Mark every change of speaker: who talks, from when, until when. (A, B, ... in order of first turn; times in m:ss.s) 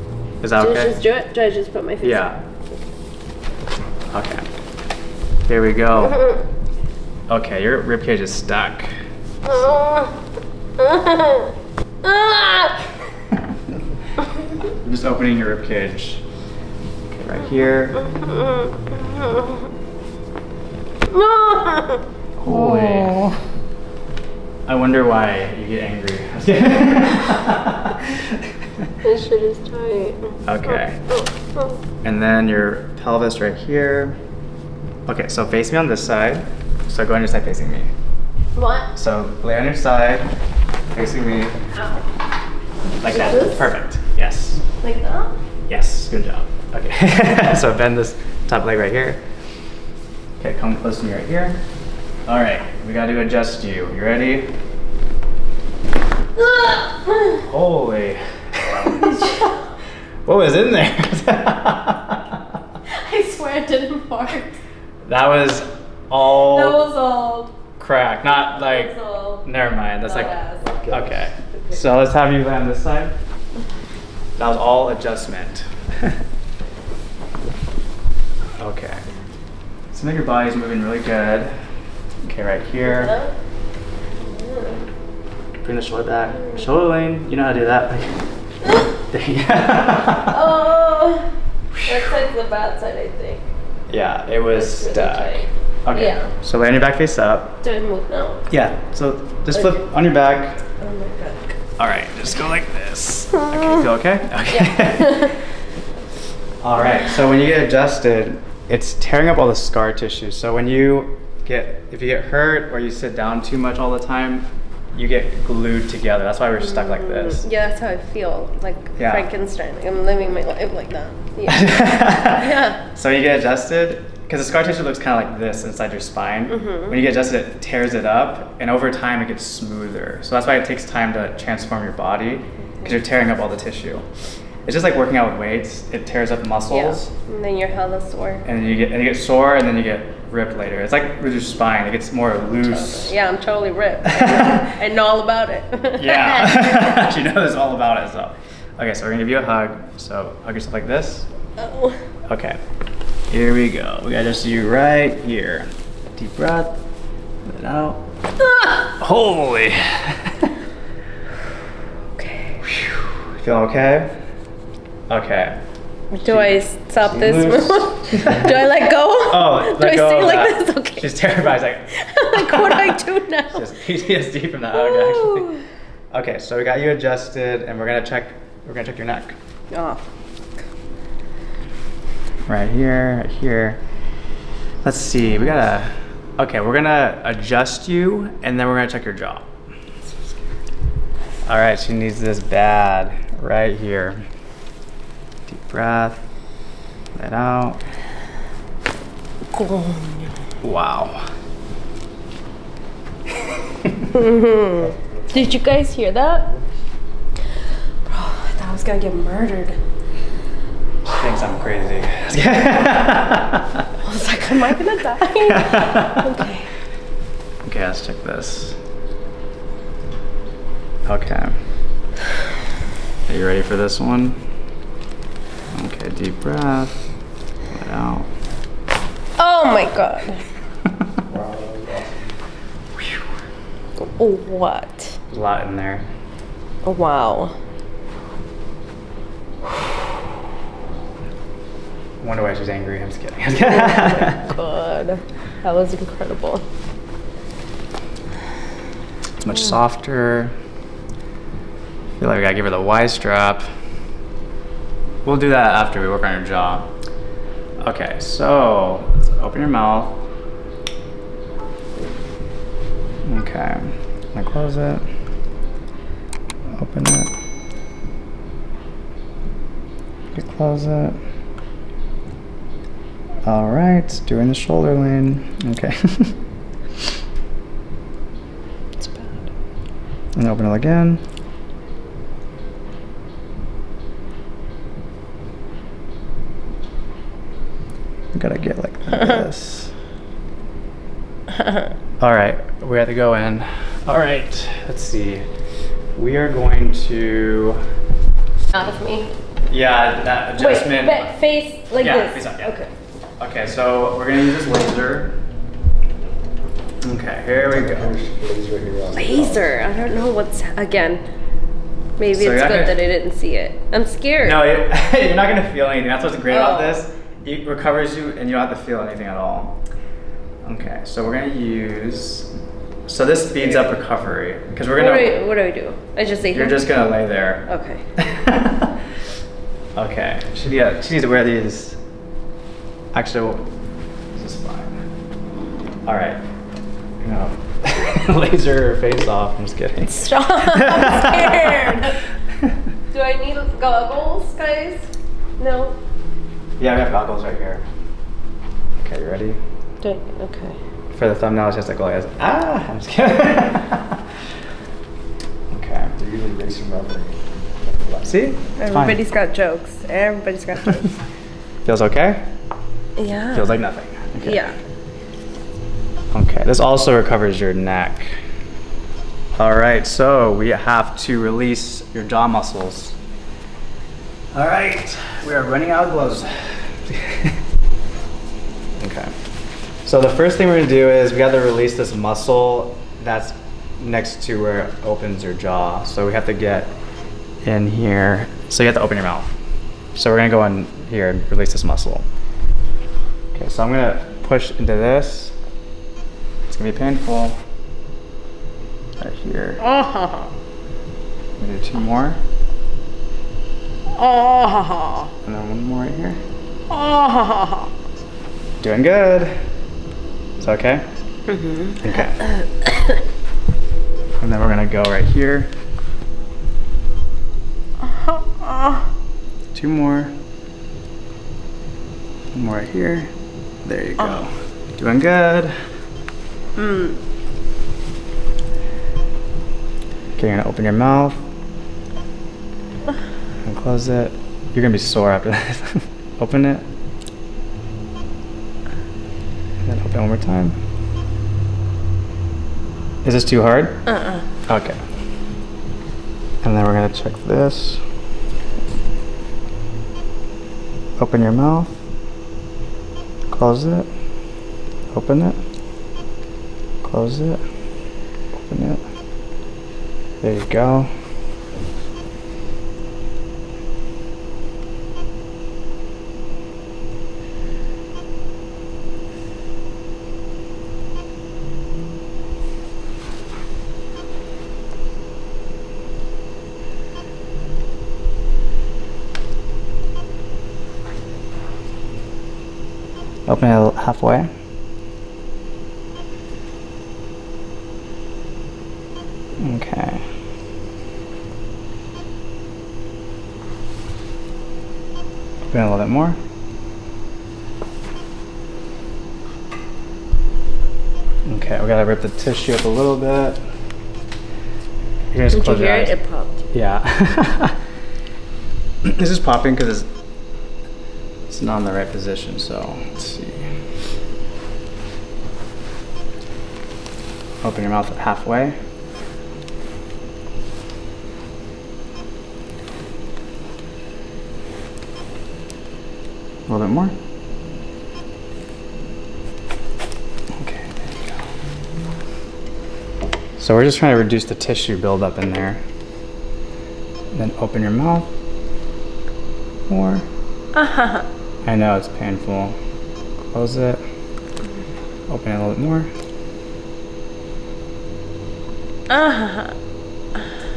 0:00.4-0:00.9 A
0:00.6-0:02.3 B
0:02.0-0:02.4 A
0:04.1-0:04.5 A
0:05.5-0:06.4 A
0:07.3-0:08.9 A
0:09.4-0:10.2 B
0:10.8-0:12.8 B
0:14.8-0:16.2 A
0:17.1-0:18.0 A
0:17.9-0:19.6 B
0:21.1-0:23.2 B
0:22.4-0:23.4 A
0:24.6-0:28.9 A
0:29.0-0:31.8 B
0:30.4-0:31.0 A
0:32.0-0:34.2 A
0:35.0-0:37.9 A
0:38.5-0:38.9 B
0:38.9-0:40.3 A
0:40.9-0:41.6 A
0:43.0-0:44.6 A
0:43.0-0:43.6 B
0:44.8-0:45.3 B
0:45.7-0:49.2 A
0:50.4-0:51.6 A
0:52.2-0:54.5 A
0:56.4-0:57.4 B
0:57.3-0:59.2 A
0:58.9-0:59.7 B
1:00.2-1:02.2 A
1:02.9-1:04.6 B
1:05.0-1:06.8 A
1:06.3-1:07.6 B
1:07.8-1:08.9 A
1:08.2-1:11.0 B
1:09.4-1:10.4 A
1:10.6-1:11.2 C
1:10.9-1:13.1 A
1:11.5-1:11.8 B
1:14.4-1:16.2 A
1:18.6-1:19.0 A
1:19.9-1:21.5 A
1:22.2-1:23.1 A
1:22.8-1:23.3 B
1:24.2-1:24.8 B
1:25.6-1:28.2 A
1:29.0-1:30.4 A
1:30.3-1:31.3 B
1:31.7-1:32.1 A
1:31.8-1:33.4 B
1:33.9-1:37.6 A
1:34.5-1:36.3 B
1:37.6-1:38.5 B
1:38.5-1:40.6 A
1:39.5-1:39.8 B
1:40.8-1:41.6 B
1:41.8-1:45.3 A
1:44.5-1:45.3 B
1:46.6-1:57.4 A
1:56.6-2:02.8 B
1:59.0-1:59.3 A
2:01.5-2:14.0 A
2:06.5-2:06.9 B
2:14.6-2:17.1 A
2:16.7-2:18.4 B
2:18.4-2:23.2 A
2:22.6-2:27.1 B
2:24.1-2:24.7 A
2:25.9-2:31.3 A
2:31.6-2:32.0 B
2:32.2-2:32.6 A
2:33.3-2:36.8 A
2:37.4-2:38.0 A
2:38.4-2:38.9 B
2:39.0-2:40.5 A
2:42.2-2:42.6 B
2:42.6-2:44.2 A
2:45.1-2:45.6 A
2:46.1-2:51.1 B
2:46.2-2:48.6 A
2:49.3-2:52.9 A
2:51.9-2:53.8 B
2:53.5-2:55.5 A
2:54.7-2:55.6 B
2:56.1-2:59.4 A
2:59.7-3:00.0 B
3:02.5-3:03.8 A
3:04.8-3:09.5 A
3:11.4-3:14.2 A
3:15.5-3:16.2 A
3:17.1-3:17.8 A
3:19.5-3:20.3 B
3:20.6-3:21.2 A
3:24.1-3:26.5 B
3:24.8-3:25.7 C
3:26.4-3:26.8 C
3:28.0-3:29.8 B
3:31.0-3:33.8 A
3:34.0-3:36.7 B
3:35.4-3:36.2 A
3:37.6-3:38.8 A
3:41.0-3:41.6 A
3:43.3-3:44.4 A
3:45.7-3:47.1 A
3:47.7-3:48.3 A
3:49.4-3:50.4 B
3:51.3-3:52.3 C
3:54.0-3:55.2 B
3:55.3-3:56.1 A
3:56.8-3:57.5 B
4:02.2-4:04.5 A
4:03.6-4:06.6 B
4:09.4-4:10.5 A
4:12.2-4:13.6 A
4:15.2-4:16.9 A
4:17.8-4:20.2 A
4:23.2-4:25.0 A
4:26.7-4:27.3 A
4:30.3-4:31.2 A
4:33.4-4:36.3 A
4:39.0-4:39.5 B
4:40.3-4:41.2 A
4:48.3-4:49.9 A
4:51.5-4:51.9 B
4:52.2-4:55.4 A
4:56.1-4:57.8 A
4:58.7-4:59.3 B
4:59.7-5:01.3 A
5:00.6-5:02.9 B
5:02.0-5:02.8 A
5:03.4-5:05.3 A
5:07.0-5:08.2 A
5:07.7-5:09.8 C
5:09.1-5:11.2 B
5:12.2-5:14.6 B
5:12.3-5:13.0 A
5:14.4-5:19.8 A
5:16.5-5:17.0 B
5:20.6-5:22.5 A
5:23.1-5:25.3 A
5:24.9-5:26.9 B
5:26.5-5:28.9 A
5:27.7-5:28.1 B
5:30.0-5:32.0 A
5:33.1-5:33.6 A
5:34.3-5:35.0 A
5:36.0-5:36.4 A
5:37.2-5:42.0 A
5:40.1-5:42.1 B
5:43.1-5:45.9 B
5:46.8-5:47.8 A
5:49.0-5:49.6 A
5:50.0-5:50.8 B
5:51.1-5:54.2 A
5:55.7-5:56.1 A
5:56.2-5:58.4 C
5:58.2-5:59.2 A
5:58.8-6:01.1 B
6:01.8-6:02.4 A
6:03.2-6:03.7 B
6:03.5-6:04.7 A
6:04.4-6:04.8 B
6:06.3-6:08.4 A
6:09.6-6:13.2 A
6:14.5-6:17.6 A
6:19.0-6:19.3 A
6:20.0-6:26.9 A
6:27.6-6:29.5 A
6:30.1-6:32.2 A
6:33.5-6:35.5 A
6:36.7-6:37.6 A
6:39.2-6:39.8 A
6:39.8-6:40.5 B
6:41.6-6:42.4 A
6:44.2-6:45.3 B
6:45.4-6:46.4 A
6:46.9-6:47.9 B
6:48.8-6:49.6 A
6:50.6-6:51.0 A
6:51.5-6:52.0 B
6:52.0-6:52.4 A
6:54.4-6:55.7 A
6:58.6-6:59.0 B
6:59.7-7:00.3 A
7:02.5-7:03.3 A
7:03.8-7:05.8 A
7:06.8-7:07.2 B
7:10.4-7:11.4 A
7:13.6-7:16.8 A
7:19.8-7:20.8 A
7:23.2-7:24.0 A
7:24.1-7:24.4 B
7:24.6-7:25.0 A
7:26.6-7:28.0 A
7:31.2-7:31.9 A
7:33.5-7:34.1 A
7:35.1-7:35.6 A
7:37.0-7:37.6 A
7:38.7-7:39.0 A
7:40.4-7:41.1 A
8:03.5-8:04.5 A
8:09.6-8:10.2 A
8:15.7-8:16.4 A
8:21.4-8:23.6 A
8:25.3-8:26.1 A
8:25.5-8:26.6 B
8:26.7-8:27.8 A
8:29.0-8:30.1 A
8:31.5-8:33.7 A
8:37.6-8:38.8 A
8:46.7-8:47.1 A
8:50.6-8:51.4 A
8:53.6-8:55.8 A
8:57.3-8:58.3 A
8:59.9-9:00.2 A
9:00.7-9:01.3 B
9:01.6-9:02.8 A
9:03.5-9:04.0 A
9:05.3-9:06.1 A
9:09.1-9:09.7 B